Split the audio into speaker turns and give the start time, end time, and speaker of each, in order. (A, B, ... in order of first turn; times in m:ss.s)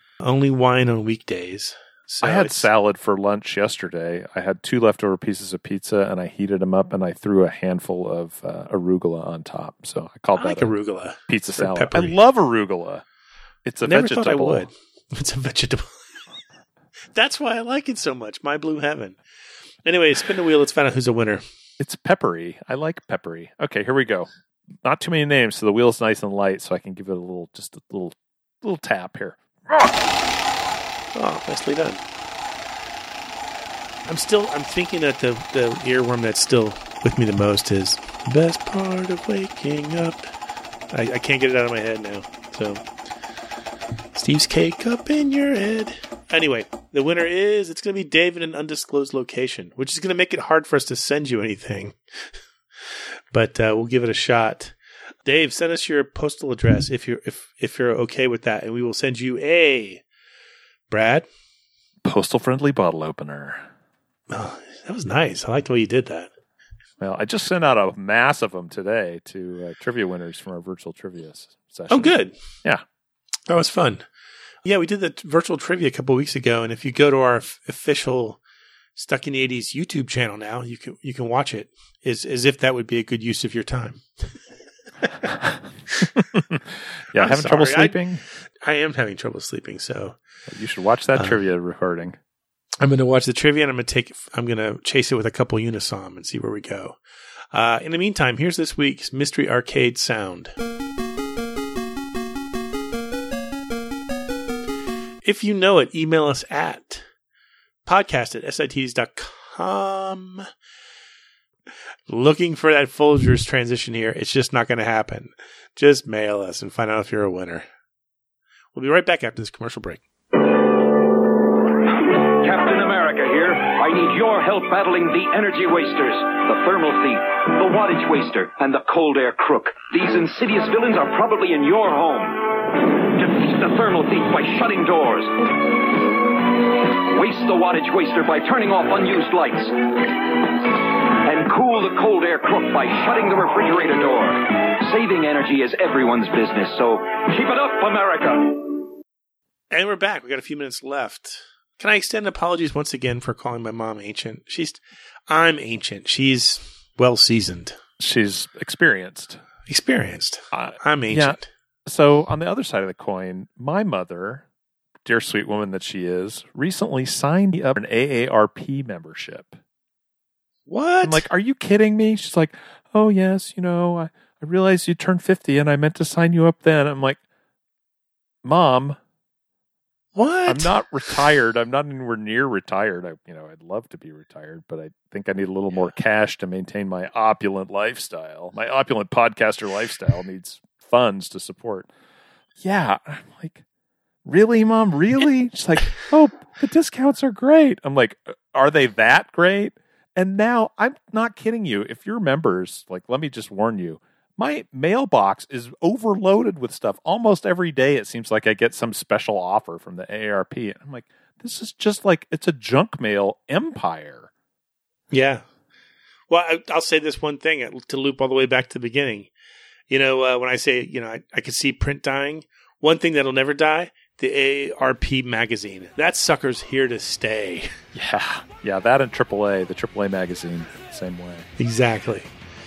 0:00.2-0:02.7 A
0:02.2-0:10.7 B
0:10.4-0:12.2 A
0:11.3-0:13.0 B
0:13.6-0:14.7 B
0:13.8-0:16.0 A
0:17.1-0:19.2 A
0:19.8-0:21.4 A
0:21.8-0:24.3 B
0:24.8-0:29.8 B
0:31.1-0:32.0 A
0:34.1-0:40.3 A
0:40.9-0:42.8 A
0:44.1-0:52.0 A
0:53.3-0:54.7 A
0:55.2-1:00.0 A
1:00.9-1:01.3 A
1:02.0-1:03.7 B
1:04.3-1:06.3 A
1:07.0-1:12.8 B
1:11.9-1:12.4 A
1:13.5-1:14.0 A
1:14.6-1:18.4 A
1:19.0-1:24.0 A
1:26.5-1:28.2 B
1:27.2-1:28.0 A
1:28.6-1:30.2 A
1:30.5-1:32.2 B
1:32.8-1:37.0 A
1:37.5-1:40.5 A
1:45.2-1:47.0 A
1:47.8-1:50.4 A
1:52.1-1:57.6 A
1:58.7-2:00.0 A
2:01.9-2:15.3 C
2:17.1-2:20.0 C
2:21.2-2:28.8 C
2:29.7-2:37.8 A
2:38.0-2:39.4 B
2:39.7-2:41.5 A
2:40.5-2:44.4 B
2:45.0-2:49.6 B
2:50.7-2:51.2 A
2:51.0-2:57.2 B
2:58.4-2:59.0 B
3:00.1-3:00.8 A
3:00.4-3:11.9 B
3:12.6-3:13.6 B
3:14.2-3:34.3 B
3:35.1-3:35.4 A
3:36.3-3:39.3 A
3:39.9-3:47.7 A
3:47.9-3:51.5 B
3:51.6-3:52.3 A